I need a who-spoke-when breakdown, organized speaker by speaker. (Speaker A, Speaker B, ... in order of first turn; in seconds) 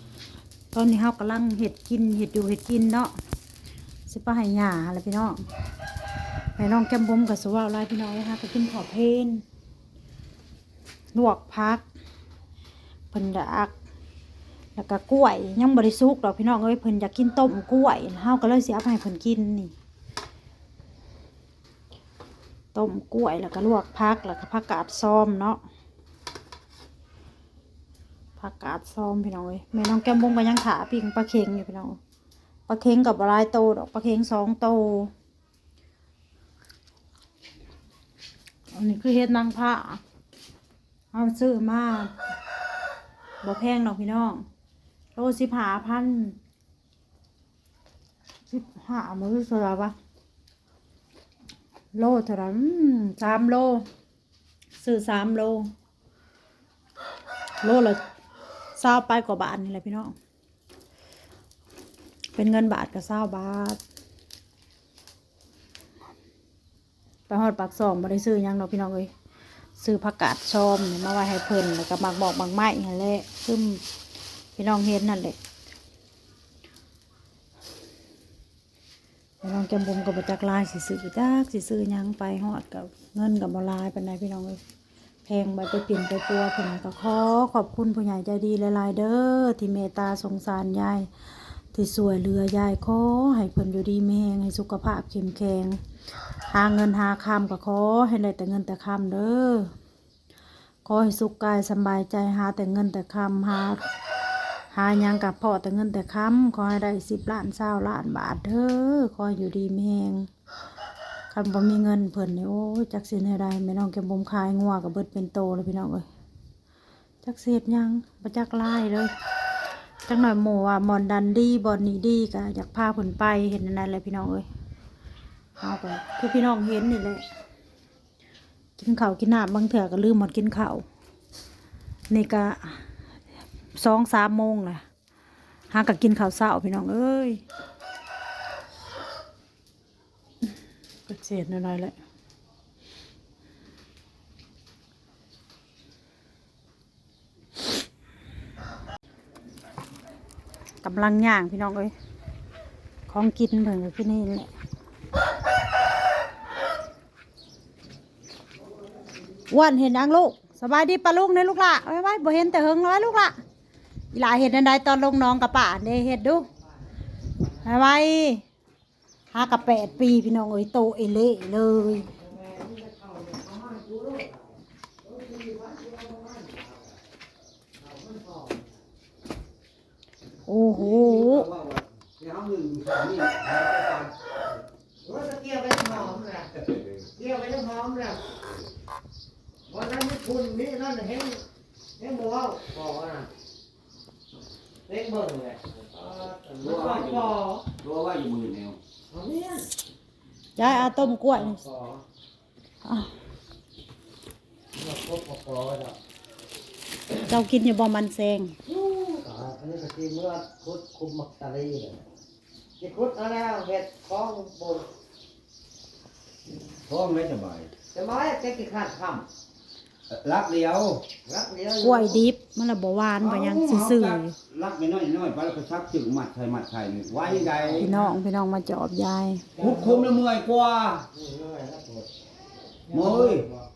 Speaker A: 0.7-3.1, 4.1-5.4, 6.5-9.4, 11.1-11.8, 13.1-13.7, 14.8-19.7, 22.7-25.6, 28.4-32.0, 32.7-35.1, 38.7-40.0, 41.1-42.1, 43.4-44.4, 45.1-46.4, 48.5-49.9, 51.9-53.8, 54.8-55.7, 57.6-58.0, 58.8-60.1, 62.3-63.8, 67.3-69.1, 69.8-73.8, 74.5-75.3, 79.4-84.6, 85.2-91.1, 91.7-95.8, 96.5-99.7, 100.8-103.8, 104.7-110.3, 111.3-116.0, 117.2-119.1, 120.0-124.5, 125.6-127.2, 128.8-130.8, 132.1-132.8, 133.7-134.8, 135.7-137.4, 141.1-141.9, 150.8-151.9, 153.1-154.5, 159.5-163.3, 164.1-166.5, 167.6-168.4, 169.3-172.1, 180.4-181.4, 200.6-201.6, 207.2-208.5, 221.8-224.3, 227.8-229.5
Speaker B: 172.1-177.0, 177.8-178.8, 185.0-188.2, 189.7-191.4, 192.0-193.3, 194.9-197.7, 199.1-199.7, 200.6-202.0, 204.7-206.0, 208.7-212.0, 212.8-214.9, 217.9-219.2, 221.2-222.2, 227.2-228.1, 229.6-230.1, 231.1-232.1, 232.9-233.6
Speaker C: 180.7-184.1, 196.6-198.8, 216.9-217.7, 220.1-221.0, 223.2-227.9, 229.6-231.1, 232.9-233.5